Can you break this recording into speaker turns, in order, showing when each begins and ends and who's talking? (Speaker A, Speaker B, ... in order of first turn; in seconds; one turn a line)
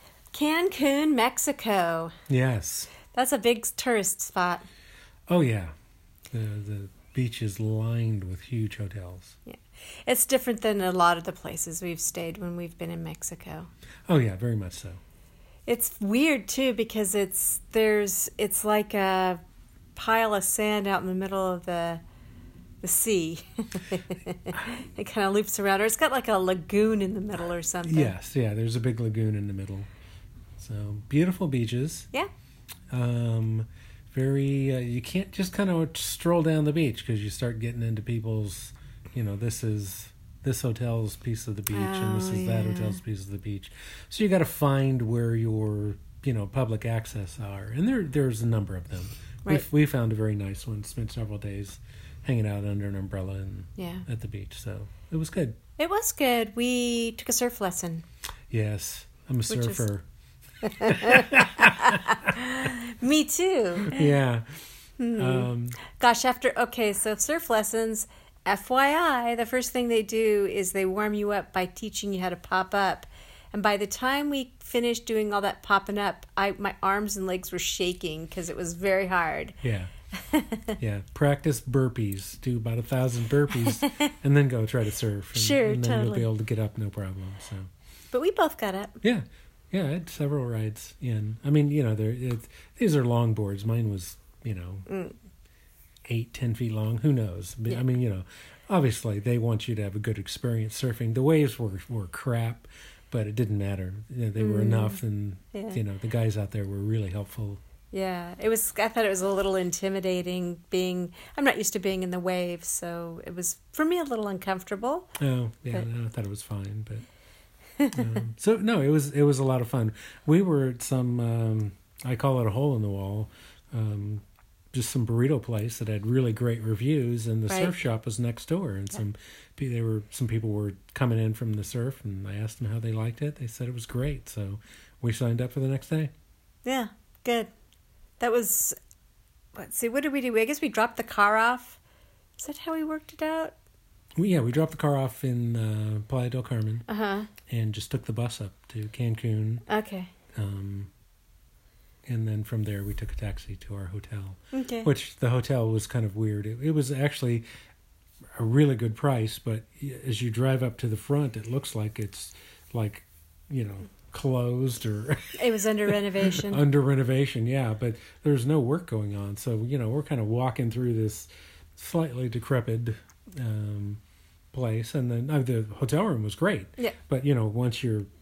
Speaker A: 0.3-2.1
Speaker B: 2.3-2.9
Speaker A: 3.1-4.7
Speaker B: 5.3-5.7
Speaker B: 6.3-9.4
Speaker A: 9.5-13.7
Speaker B: 14.1-15.0
Speaker A: 15.7-19.4
Speaker A: 20.0-22.0
Speaker A: 22.8-28.1
Speaker B: 27.8-29.9
Speaker B: 30.6-32.1
Speaker B: 32.9-55.6
Speaker A: 41.7-43.0
Speaker A: 53.8-54.1
Speaker A: 55.8-58.0
Speaker B: 58.5-60.0
Speaker A: 59.5-59.9
Speaker A: 60.6-64.1
Speaker B: 60.8-62.0
Speaker B: 63.9-64.6
Speaker A: 65.0-79.6
Speaker B: 65.2-65.8
Speaker B: 79.6-79.9
Speaker A: 80.2-80.8
Speaker B: 80.8-87.7
Speaker A: 85.3-86.3
Speaker A: 88.1-89.0
Speaker B: 89.0-94.9
Speaker A: 94.9-95.2
Speaker B: 96.1-107.6
Speaker A: 104.4-105.0
Speaker A: 105.5-105.8
Speaker A: 107.9-115.1
Speaker B: 115.2-117.1
Speaker A: 117.8-118.1
Speaker B: 117.9-136.1
Speaker A: 127.5-127.8
Speaker A: 136.7-137.5
Speaker A: 138.2-138.8
Speaker A: 139.6-141.8
Speaker A: 142.4-143.5
Speaker B: 144.2-146.9
Speaker A: 146.9-147.3
Speaker B: 147.5-149.6
Speaker A: 149.7-150.1
Speaker B: 150.4-150.9
Speaker B: 152.1-157.4
Speaker A: 154.5-154.9
Speaker B: 158.4-174.0
Speaker A: 165.3-166.6
Speaker B: 174.5-178.1